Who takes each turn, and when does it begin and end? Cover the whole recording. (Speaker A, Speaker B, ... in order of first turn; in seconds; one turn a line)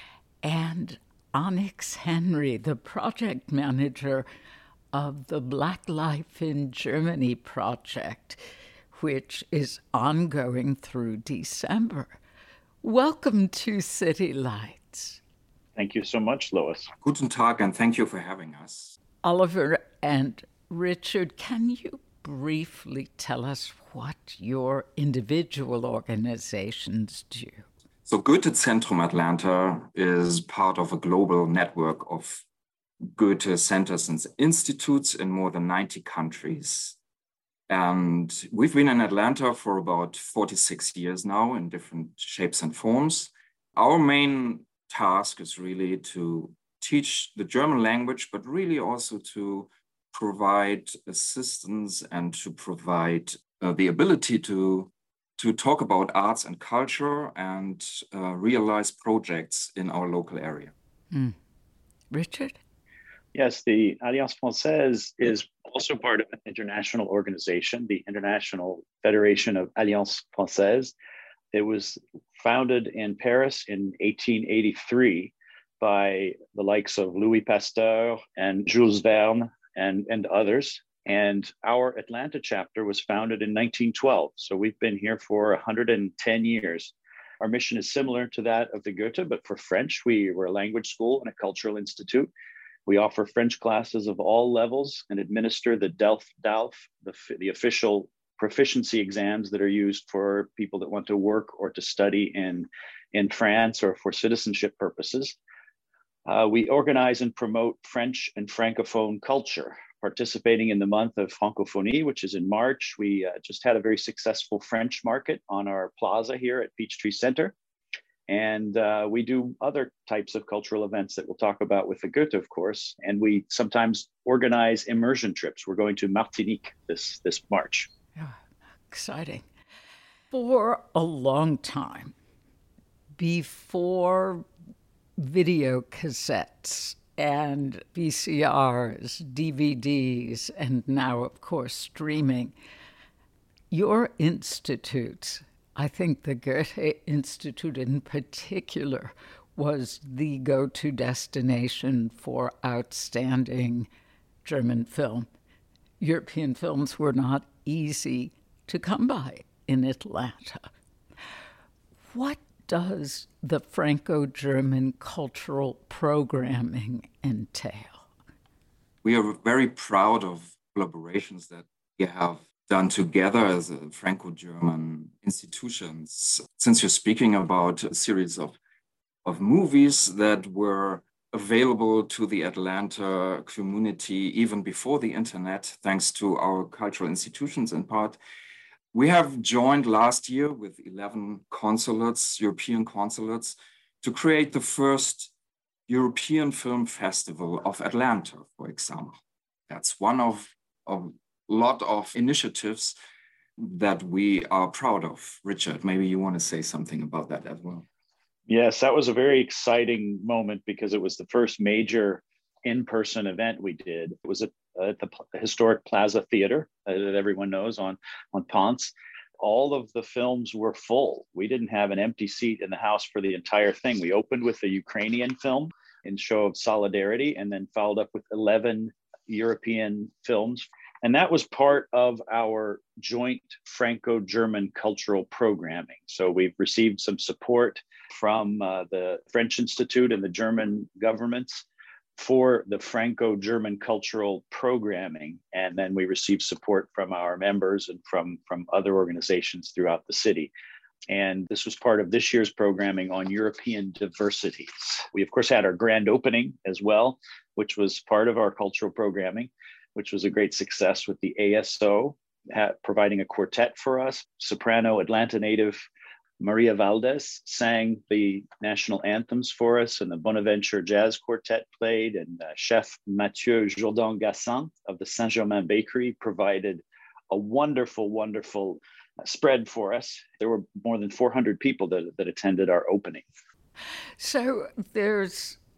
Speaker A: 0.4-4.2
Speaker A: 4.9-8.4
Speaker A: 8.9-12.1
Speaker A: 12.8-15.2
Speaker B: 15.8-16.9
Speaker C: 17.0-18.9
Speaker A: 19.2-27.6
Speaker C: 28.1-32.4
Speaker C: 33.1-36.9
Speaker C: 37.7-60.7
Speaker A: 62.1-62.6
Speaker B: 63.3-70.9
Speaker B: 71.5-92.3
Speaker B: 92.9-105.4
Speaker B: 106.2-117.5
Speaker B: 118.3-127.9
Speaker A: 128.9-129.4
Speaker A: 130.3-132.1
Speaker A: 133.2-134.4
Speaker A: 135.2-142.5
Speaker A: 143.7-153.9
Speaker A: 154.4-155.3
Speaker A: 156.0-160.7
Speaker A: 162.1-168.1
Speaker C: 169.0-178.6
Speaker C: 179.2-188.2
Speaker C: 188.9-195.3
Speaker C: 195.9-202.9
Speaker C: 203.6-207.8
Speaker B: 208.5-241.6
Speaker B: 242.2-250.5
Speaker B: 251.1-265.8
Speaker B: 266.4-283.2
Speaker A: 284.2-285.6